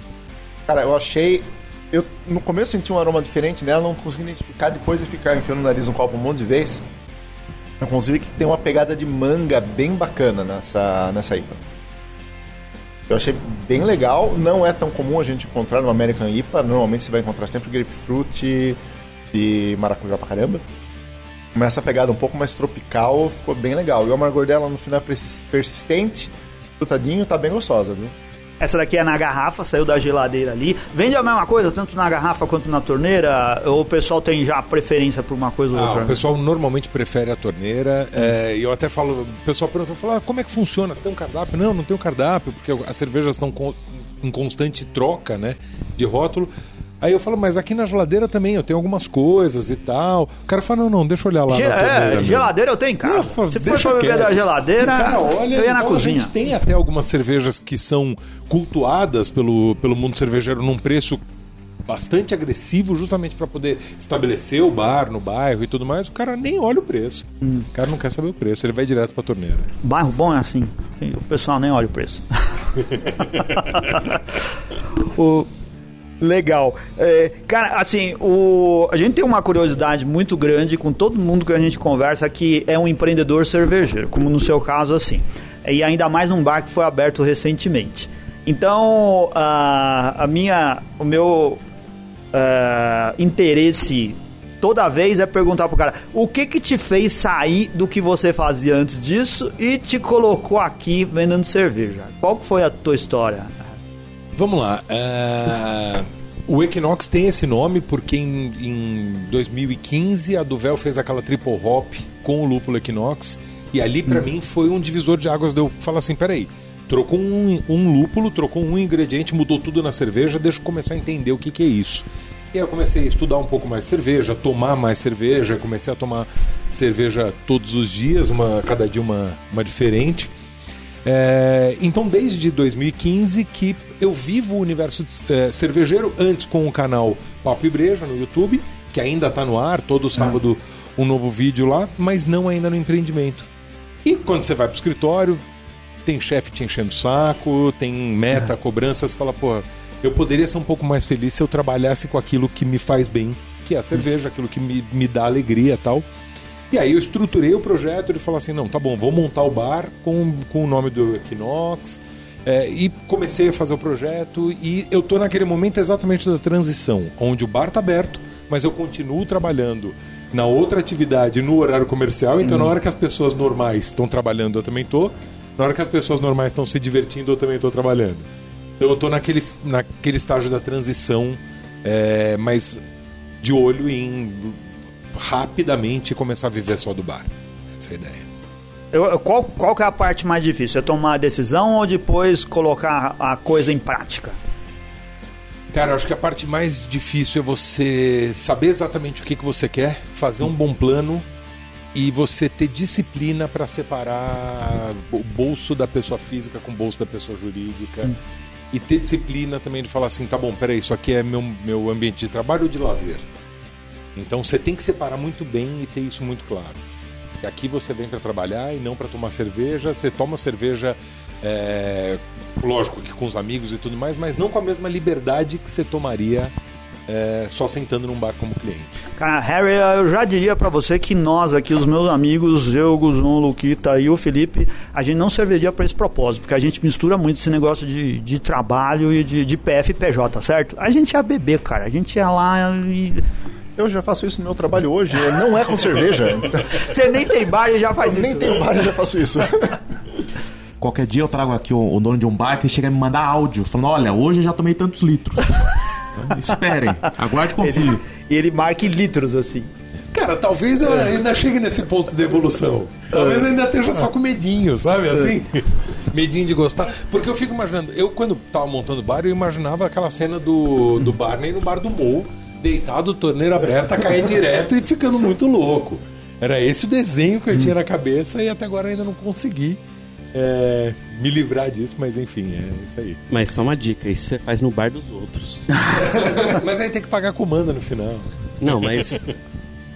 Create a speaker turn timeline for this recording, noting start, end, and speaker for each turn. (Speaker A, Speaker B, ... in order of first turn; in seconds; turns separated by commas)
Speaker A: 0.7-6.8, Speaker A: 7.8-11.6, Speaker A: 13.1-18.8, Speaker A: 19.3-20.6, Speaker A: 21.5-28.1, Speaker B: 28.6-36.2, Speaker C: 35.7-46.5, Speaker C: 47.0-52.5, Speaker B: 51.5-56.3, Speaker C: 53.0-61.2, Speaker C: 61.9-69.7, Speaker B: 69.8-74.3, Speaker B: 74.9-75.5, Speaker B: 76.2-91.6, Speaker B: 92.3-103.8, Speaker C: 104.4-130.3, Speaker C: 131.0-143.5, Speaker C: 144.0-145.4, Speaker C: 146.0-156.0, Speaker C: 156.7-178.3, Speaker C: 178.8-182.8, Speaker C: 183.4-184.6, Speaker C: 185.1-188.2, Speaker B: 188.9-194.4, Speaker C: 195.7-201.2, Speaker C: 201.9-208.1, Speaker C: 208.7-213.2, Speaker C: 214.2-216.8, Speaker C: 217.4-226.5, Speaker C: 227.1-229.0, Speaker B: 229.2-243.2, Speaker A: 243.8-246.9, Speaker B: 246.8-248.6, Speaker A: 248.0-249.8, Speaker D: 250.8-255.6, Speaker D: 256.1-258.0, Speaker B: 257.6-259.7, Speaker C: 260.1-279.8, Speaker B: 263.1-263.4, Speaker C: 280.3-283.2, Speaker E: 283.3-285.9, Speaker C: 286.0-289.2, Speaker E: 288.6-289.3